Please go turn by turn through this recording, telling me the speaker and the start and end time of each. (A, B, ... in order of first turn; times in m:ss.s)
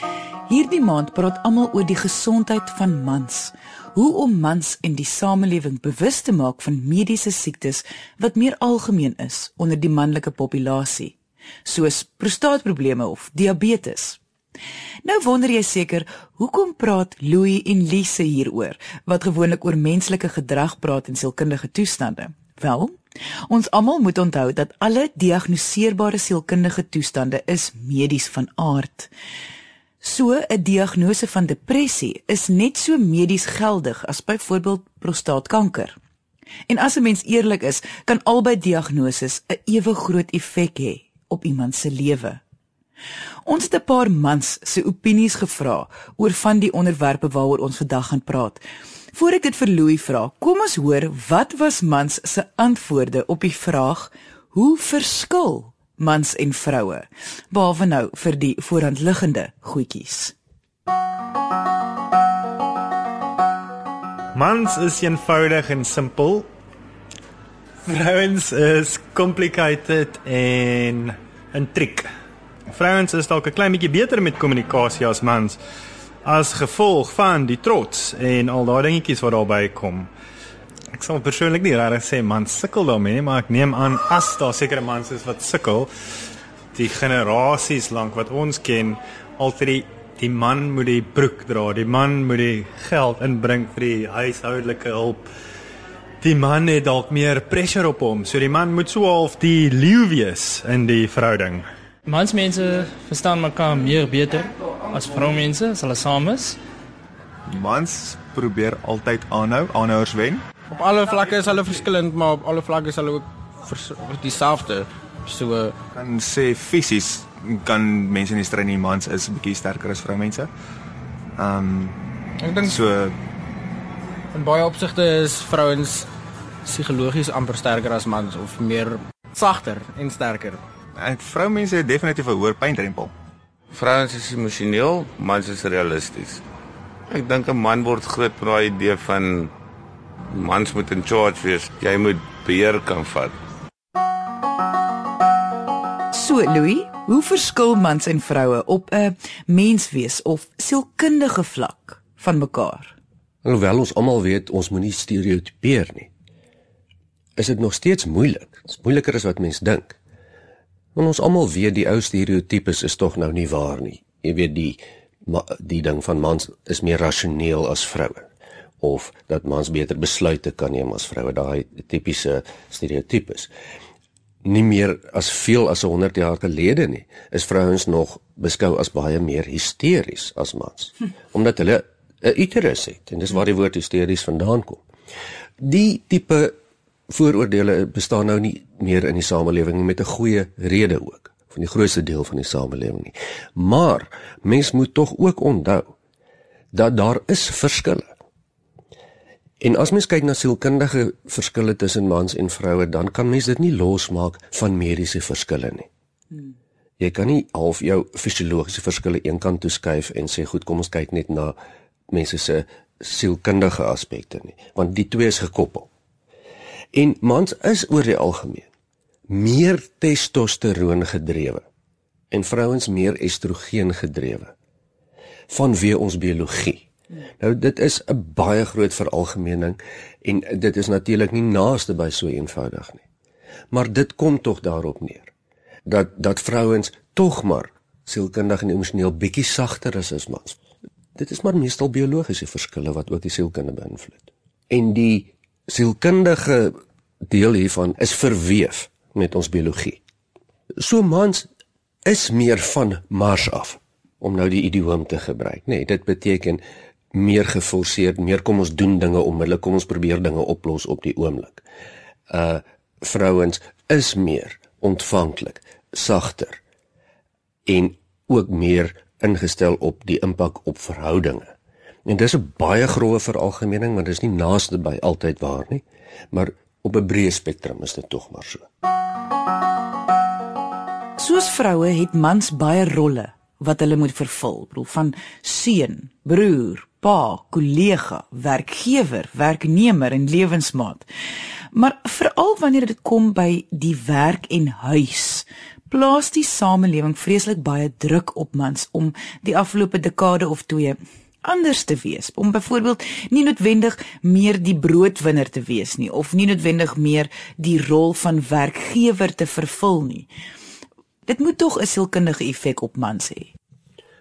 0:00.5-0:14.2 A
0:15.0-0:23.0 A
0:23.5-0:29.1 A
0:30.0-0:36.0 A
0:36.7-0:42.4 A
0:43.5-0:48.6 A
0:49.1-1:00.4 A
1:04.4-1:06.5 B
1:07.8-1:12.1 B
1:12.7-1:15.6 B
1:16.2-1:20.1 B
1:20.9-1:25.9 B
1:26.7-1:35.3 B
1:36.2-1:41.7 B
1:42.1-1:46.6 C
1:47.5-1:50.4 D
1:50.7-1:55.7 E
1:56.0-2:00.5 D
2:01.4-2:02.0 D
2:02.4-2:02.8 E
2:02.6-2:03.2 D
2:04.3-2:06.1 E
2:06.6-2:10.6 E
2:11.0-2:13.1 D
2:13.7-2:16.4 F
2:17.1-2:19.5 F
2:20.3-2:23.4 F
2:26.1-2:33.0 A
2:33.4-2:36.1 G
2:37.4-2:40.0 G
2:41.0-2:48.3 G
2:48.8-2:53.5 G
2:54.4-3:04.8 G
3:05.6-3:06.5 G
3:07.1-3:15.9 G
3:16.7-3:18.1 G
3:19.6-3:25.9 G
3:27.0-3:31.6 G
3:32.1-3:35.9 G
3:36.9-3:38.7 G
3:39.3-3:41.6 G
3:42.3-3:44.5 G
3:45.5-3:46.9 G
3:47.4-3:53.0 G
3:53.7-3:55.3 G
3:55.9-4:00.6 G
4:01.2-4:10.0 G
4:10.8-4:11.5 G
4:12.0-4:16.6 G
4:17.1-4:21.6 G
4:22.3-4:26.6 G
4:27.7-4:31.5 G
4:32.1-4:38.7 G
4:41.2-4:51.1 A
4:51.7-5:10.3 A
5:11.3-5:13.5 A